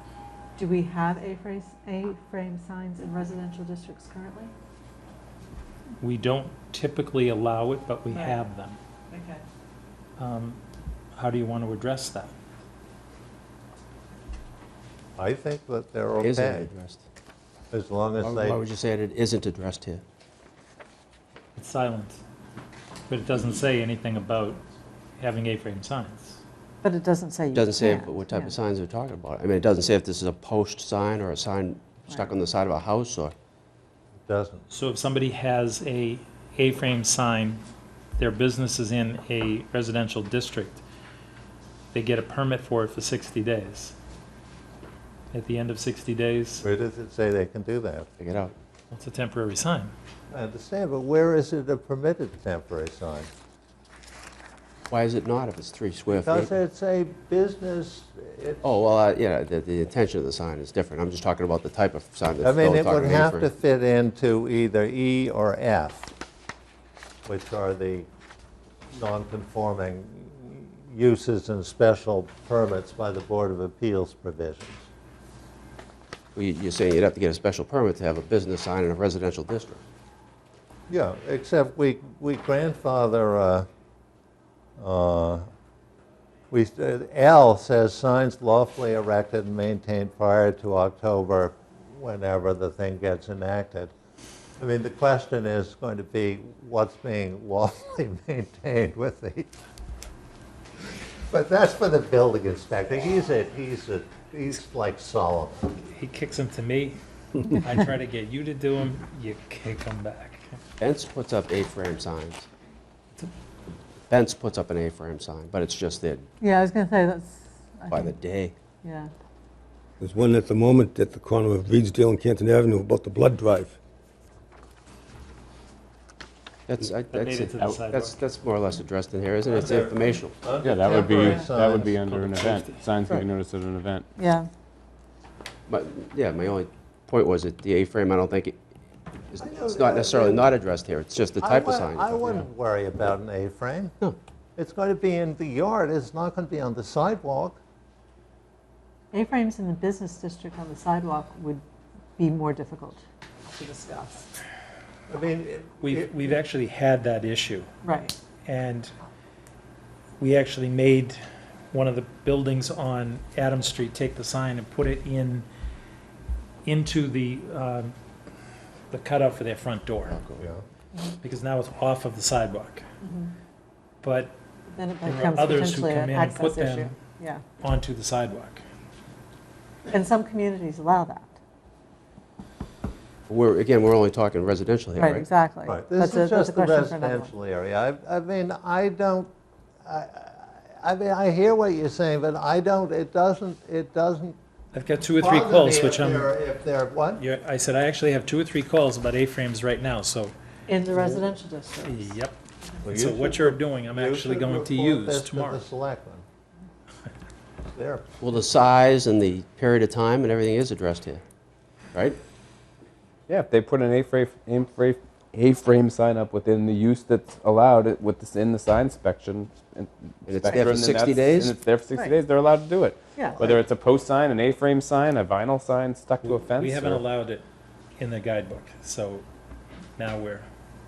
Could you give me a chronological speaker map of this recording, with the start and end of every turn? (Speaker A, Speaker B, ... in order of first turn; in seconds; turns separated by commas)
Speaker A: 0.6-4.5, Speaker B: 6.0-8.8, Speaker A: 8.1-8.4, Speaker A: 9.1-9.4, Speaker B: 10.2-10.6, Speaker B: 11.2-12.3, Speaker C: 15.2-16.7, Speaker D: 16.2-17.0, Speaker C: 17.7-18.6, Speaker D: 18.2-20.0, Speaker B: 21.6-22.2, Speaker B: 23.1-24.6, Speaker B: 25.2-26.4, Speaker A: 26.8-28.5, Speaker D: 27.5-33.3, Speaker C: 34.3-34.6, Speaker B: 34.7-37.6, Speaker B: 38.2-40.8, Speaker B: 41.9-44.0, Speaker B: 45.3-46.6, Speaker C: 46.6-48.1, Speaker D: 48.2-48.5, Speaker B: 48.9-49.9, Speaker C: 50.3-53.3, Speaker D: 54.9-56.5, Speaker C: 56.2-58.6, Speaker D: 58.6-63.5, Speaker C: 62.4-66.1, Speaker C: 67.3-68.1, Speaker C: 68.9-74.9, Speaker D: 76.3-79.8, Speaker C: 80.9-83.7, Speaker C: 84.8-85.5, Speaker C: 86.5-93.9, Speaker C: 94.6-99.5, Speaker C: 101.1-105.8, Speaker B: 105.8-110.6, Speaker D: 110.8-112.5, Speaker D: 114.1-116.3, Speaker A: 116.4-118.2, Speaker D: 117.9-118.5, Speaker A: 118.8-119.1, Speaker E: 120.0-123.8, Speaker D: 126.7-130.3, Speaker B: 127.0-128.2, Speaker C: 129.5-132.7, Speaker F: 130.6-134.1, Speaker B: 132.4-132.8, Speaker A: 134.2-134.5, Speaker D: 135.7-138.6, Speaker D: 139.3-142.4, Speaker C: 139.4-140.5, Speaker C: 141.4-143.9, Speaker C: 144.6-147.6, Speaker A: 149.1-151.6, Speaker A: 152.2-154.3, Speaker C: 155.1-156.3, Speaker B: 155.8-157.7, Speaker A: 157.8-158.1, Speaker B: 158.4-158.9, Speaker B: 160.2-165.5, Speaker B: 166.7-167.9, Speaker B: 168.9-170.2, Speaker D: 170.1-170.4, Speaker B: 171.2-172.9, Speaker A: 173.0-173.3, Speaker B: 174.0-174.4, Speaker A: 174.7-177.4, Speaker B: 175.0-176.9, Speaker B: 177.6-178.6, Speaker A: 179.9-181.4, Speaker D: 183.3-185.3, Speaker A: 185.0-187.3, Speaker C: 185.7-189.3, Speaker C: 189.9-194.4, Speaker B: 194.7-196.3, Speaker C: 195.2-197.2, Speaker B: 197.2-200.3, Speaker A: 200.7-202.2, Speaker B: 201.8-205.7, Speaker C: 202.8-206.2, Speaker C: 207.7-208.1, Speaker D: 208.2-211.2, Speaker D: 211.9-212.2, Speaker F: 213.3-227.0, Speaker D: 220.3-221.6, Speaker A: 221.9-222.2, Speaker A: 223.2-223.4, Speaker B: 226.6-227.4, Speaker B: 228.0-229.2, Speaker B: 230.0-230.5